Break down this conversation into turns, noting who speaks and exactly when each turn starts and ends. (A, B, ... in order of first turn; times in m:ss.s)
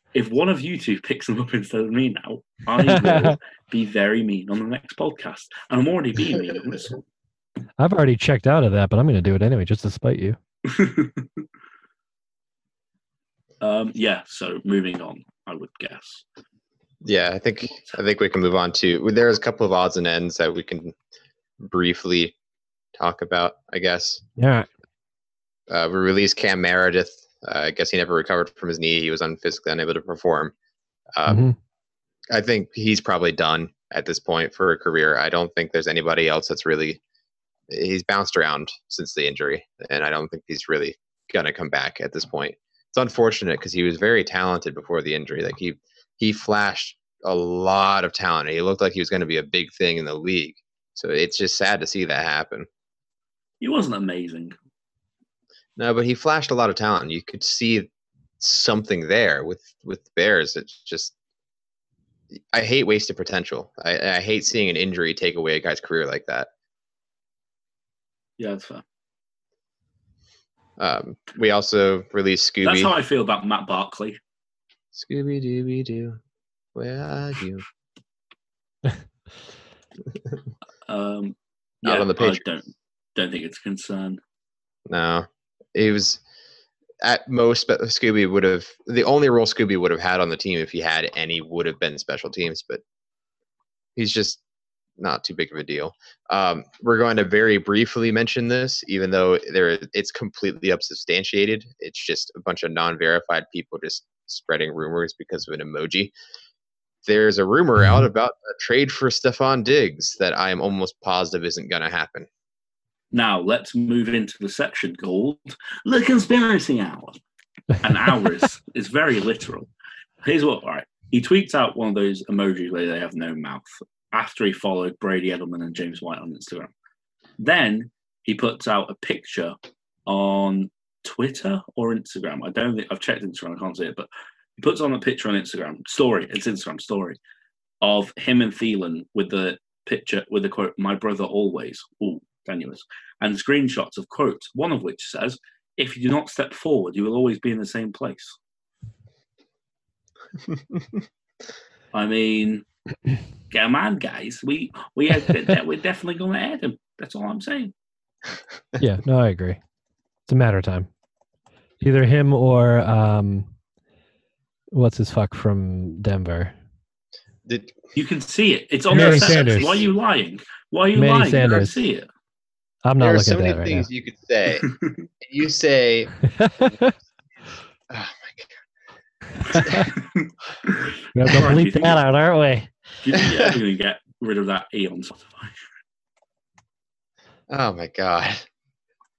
0:00.1-0:07.0 A
0:02.8-0:03.4 B
0:07.8-0:10.4 B
0:10.6-0:11.3 A
0:13.6-0:16.2 A
0:17.0-0:20.9 C
0:21.6-0:22.3 C
0:23.0-0:24.2 C
0:24.4-0:24.7 B
0:25.7-0:30.5 C
0:31.2-0:31.5 C
0:31.3-0:31.6 B
0:32.3-0:37.0 C
0:37.7-0:52.7 C
0:53.6-0:54.5 A
0:55.8-0:57.9 C
0:58.4-1:01.1 C
1:02.5-1:06.5 C
1:08.4-1:08.8 A
1:10.8-1:12.9 C
1:12.6-1:14.2 A
1:14.9-1:16.2 C
1:16.7-1:17.6 C
1:20.8-1:24.2 A
1:21.8-1:22.4 C
1:24.9-1:26.2 C
1:27.0-1:32.8 C
1:34.0-1:34.4 C
1:35.0-1:46.1 C
1:47.0-1:52.3 C
1:53.1-1:57.2 A
1:57.8-1:59.7 A
2:00.2-2:06.7 A
2:07.4-2:09.6 A
2:10.1-2:17.2 A
2:17.8-2:28.4 A
2:31.9-2:32.6 A
2:33.5-2:37.7 A
2:38.8-2:39.6 B
2:40.3-2:40.9 B
2:41.8-2:43.5 B
2:44.7-2:46.5 B
2:47.5-2:47.8 C
2:48.0-2:52.1 A
2:48.9-2:49.8 B
2:49.0-2:49.8 C
2:51.0-2:51.8 B
2:52.8-2:53.9 B
2:53.0-2:54.7 C
2:54.6-2:55.0 A
2:55.2-2:56.1 C
2:56.4-2:56.9 B
2:57.9-2:58.5 C
2:59.5-2:59.8 C
2:59.5-2:59.8 B
3:00.0-3:02.0 A
3:01.1-3:02.7 B
3:03.0-3:05.6 A
3:07.5-3:08.4 C